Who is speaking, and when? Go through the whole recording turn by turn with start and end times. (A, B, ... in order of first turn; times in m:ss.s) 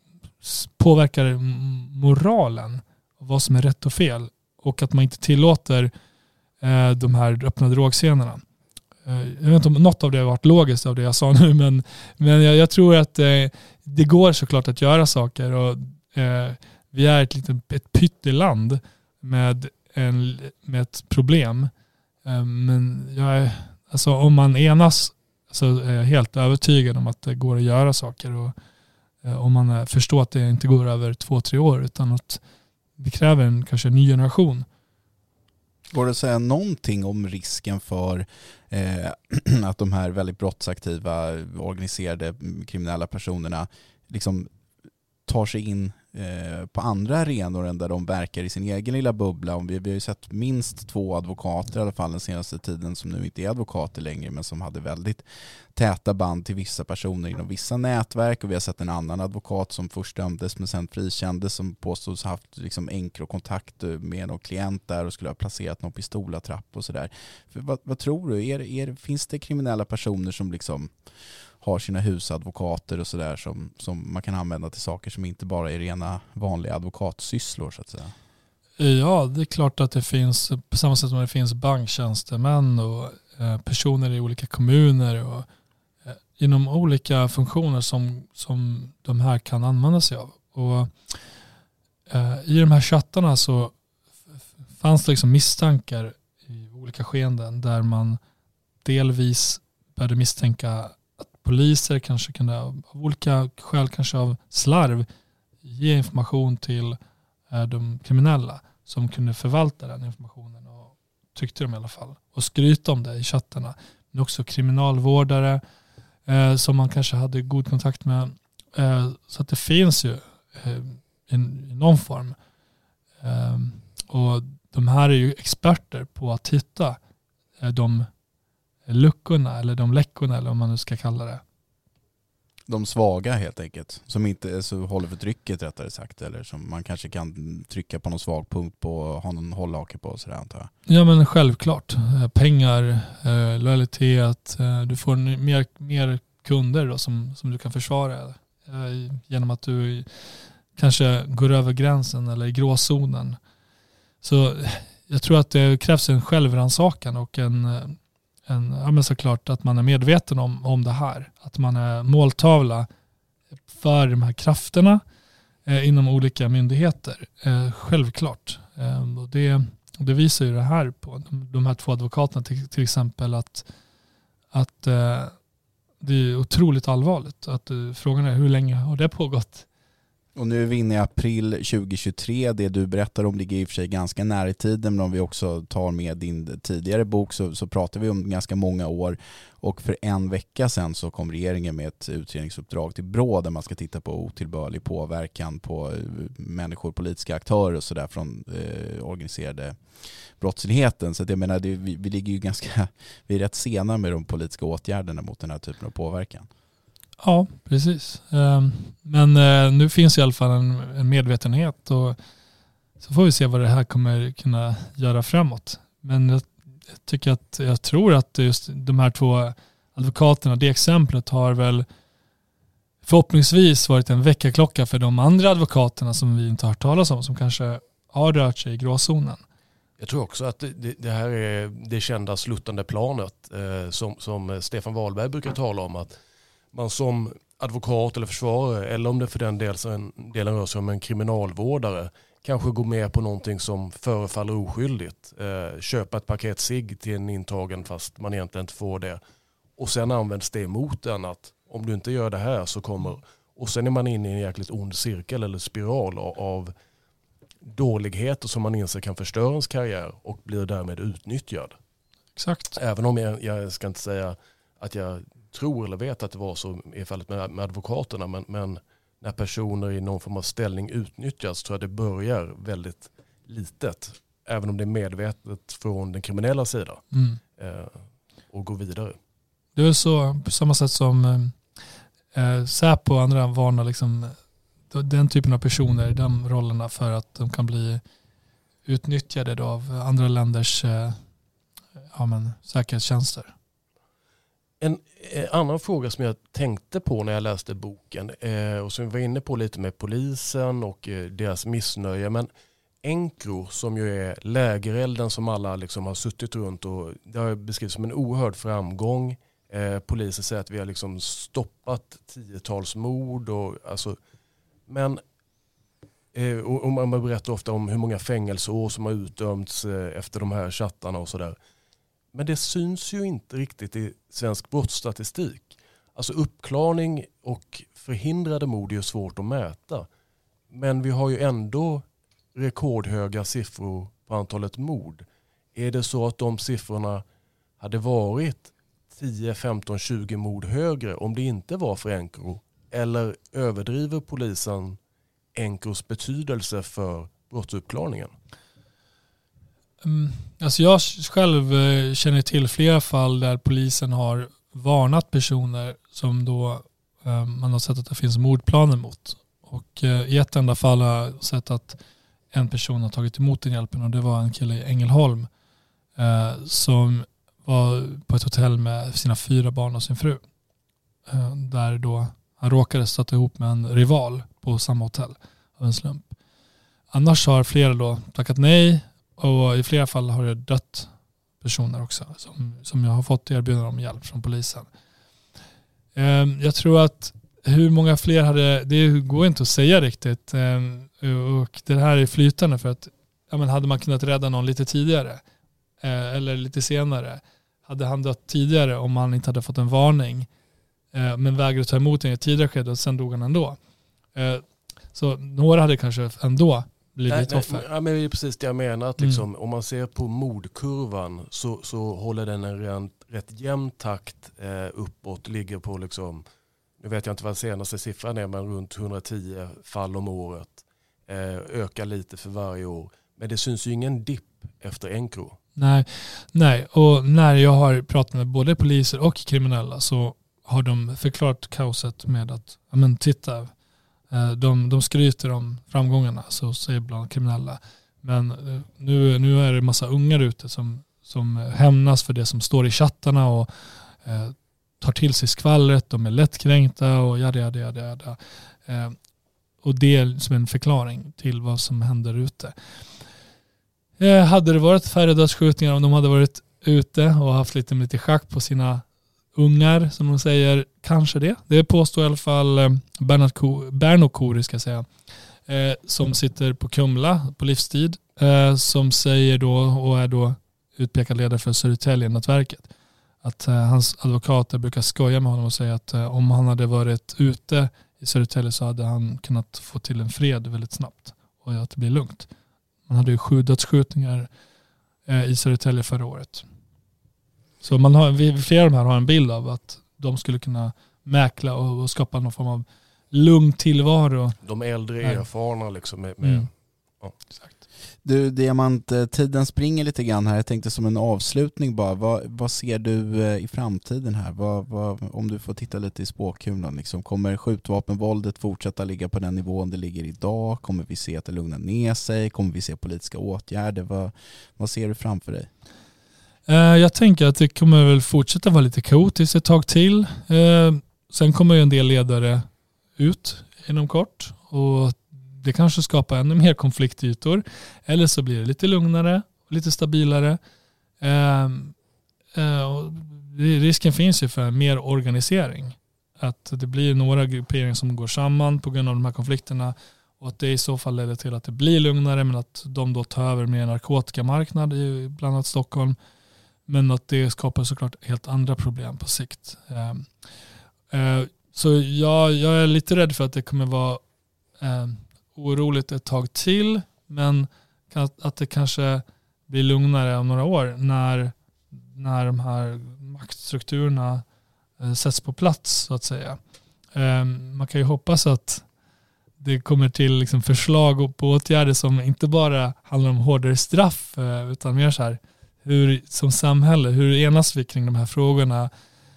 0:00.4-0:05.9 A
0:06.6-0:08.4 A
0:09.0-0:21.7 A
0:22.2-0:28.5 A
0:29.2-0:32.4 A
0:33.0-0:34.6 A
0:35.9-0:44.5 B
0:45.3-1:10.9 B
1:11.6-1:18.1 B
1:18.8-1:25.5 A
1:26.1-1:31.2 A
1:32.1-1:33.7 A
1:34.8-1:38.2 A
1:38.8-1:45.1 A
1:45.6-1:47.0 A
1:47.5-1:55.6 A
1:56.2-2:02.4 A
2:03.2-2:07.0 A
2:07.6-2:08.1 A
2:08.8-2:11.4 A
2:12.7-2:20.7 B
2:20.9-2:30.1 A
2:30.7-2:33.4 A
2:34.2-2:42.9 A
2:43.7-2:45.0 A
2:45.6-2:53.7 A
2:54.5-2:55.3 A
2:56.0-2:59.6 A
3:00.3-3:19.8 B
3:20.4-3:26.5 B
3:27.2-3:32.2 A
3:33.0-3:41.8 A
3:43.0-3:49.4 A
3:50.0-3:56.1 C
3:56.7-4:09.2 C
4:09.8-4:16.7 C
4:17.6-4:21.8 C
4:22.4-4:22.8 A
4:22.8-4:37.0 C
4:37.1-4:37.4 A
4:37.6-4:39.2 C
4:39.7-4:41.6 A
4:42.3-4:44.4 A
4:44.9-4:48.0 A
4:48.8-4:51.2 A
4:52.1-4:53.5 A
4:54.8-5:02.5 C
5:03.0-5:14.2 C
5:14.9-5:15.2 C
5:16.3-5:21.6 C
5:22.3-5:30.1 C
5:30.7-5:37.2 C
5:37.8-5:45.0 C
5:45.5-5:48.3 C
5:50.0-6:02.0 A
6:02.5-6:05.5 A
6:06.2-6:10.4 A
6:11.3-6:16.3 A
6:17.1-6:21.1 A
6:21.6-6:24.9 A
6:26.1-6:35.4 A
6:36.0-6:40.5 A
6:41.1-6:43.8 A
6:44.3-6:47.9 A
6:47.3-6:56.4 C
6:57.0-7:05.6 C
7:05.8-7:13.7 A
7:14.3-7:29.2 A
7:29.8-7:32.7 A
7:34.2-7:45.1 A
7:45.6-7:52.9 A
7:53.4-8:02.5 A
8:03.1-8:04.5 A
8:05.3-8:06.6 A
8:07.8-8:14.6 A
8:14.6-8:17.3 C
8:16.4-8:16.7 A
8:17.5-8:17.8 A
8:18.2-8:35.7 B
8:36.7-8:50.6 A
8:51.2-8:51.9 A
8:52.5-9:06.2 A
9:06.9-9:10.3 A
9:11.1-9:14.2 A
9:14.8-9:24.4 A
9:25.0-9:26.6 A
9:27.1-9:28.8 A
9:29.6-9:38.9 A